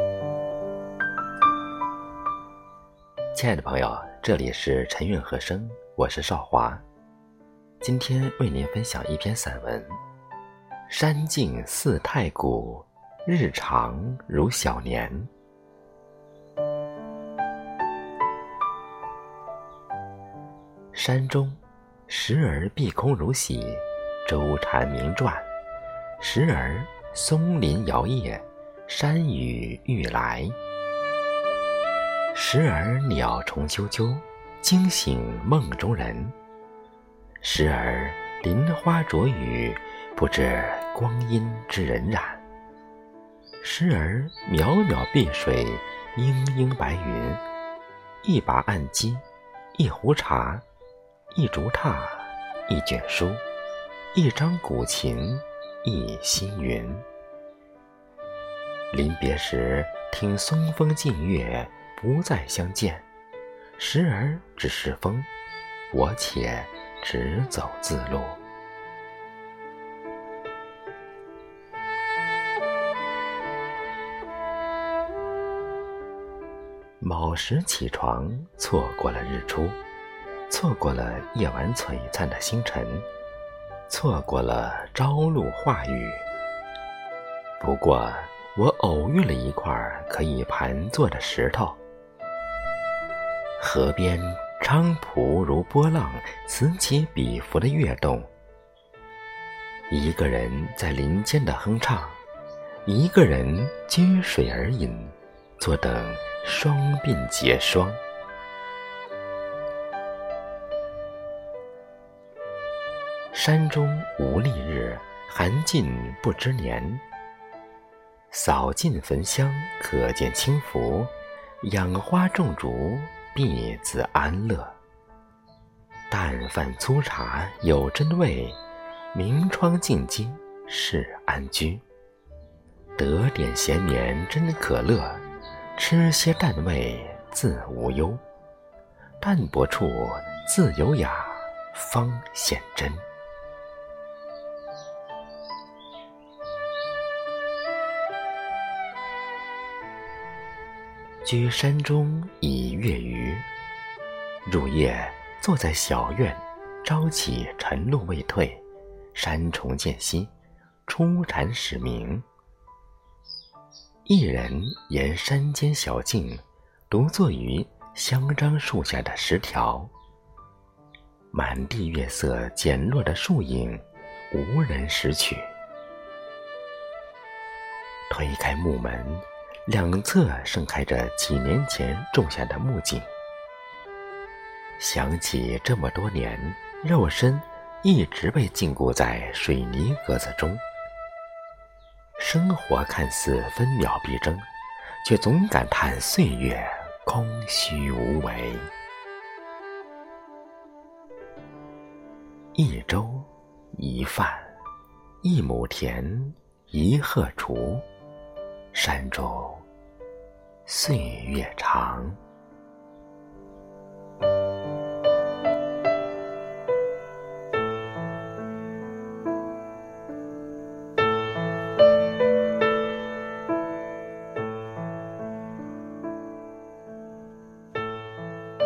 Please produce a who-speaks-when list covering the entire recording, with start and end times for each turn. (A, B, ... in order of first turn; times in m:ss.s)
0:03.3-0:06.8 A
0:07.8-0:10.0 A
0:10.9-0:15.3 A
0:20.9-0:25.5 A
0:26.2-0:30.6 A
0:32.3-0:36.4 A
0:37.4-0:42.4 A
0:43.6-0:47.4 A
0:48.2-0:49.2 A
0:49.8-0:50.6 A
0:51.3-0:53.4 A
0:54.1-0:57.1 A
0:58.9-1:03.0 A
1:03.8-1:05.3 A
1:05.9-1:08.4 A
1:17.0-1:19.8 A
1:20.5-1:23.1 A
1:23.9-1:26.3 A
1:27.6-1:31.8 A
1:33.6-1:38.3 A
1:39.9-1:42.2 A
1:42.8-1:48.0 A
1:53.3-1:57.0 A
1:58.3-2:04.8 A
2:06.1-2:08.6 A
2:09.1-2:11.8 A
2:13.0-2:15.2 A
2:15.8-2:18.2 A
2:19.2-2:23.0 A
2:31.2-2:33.5 A
2:34.4-2:38.6 A
2:39.1-2:40.3 A
2:40.9-2:42.2 A
2:44.1-2:49.9 A
2:51.3-2:55.5 A
2:58.1-3:03.1 A
3:04.8-3:10.6 A
3:12.2-3:14.5 A
3:15.0-3:18.7 A
3:22.6-3:24.6 A
3:25.2-3:27.9 A
3:28.7-3:29.7 A
3:30.7-3:32.2 A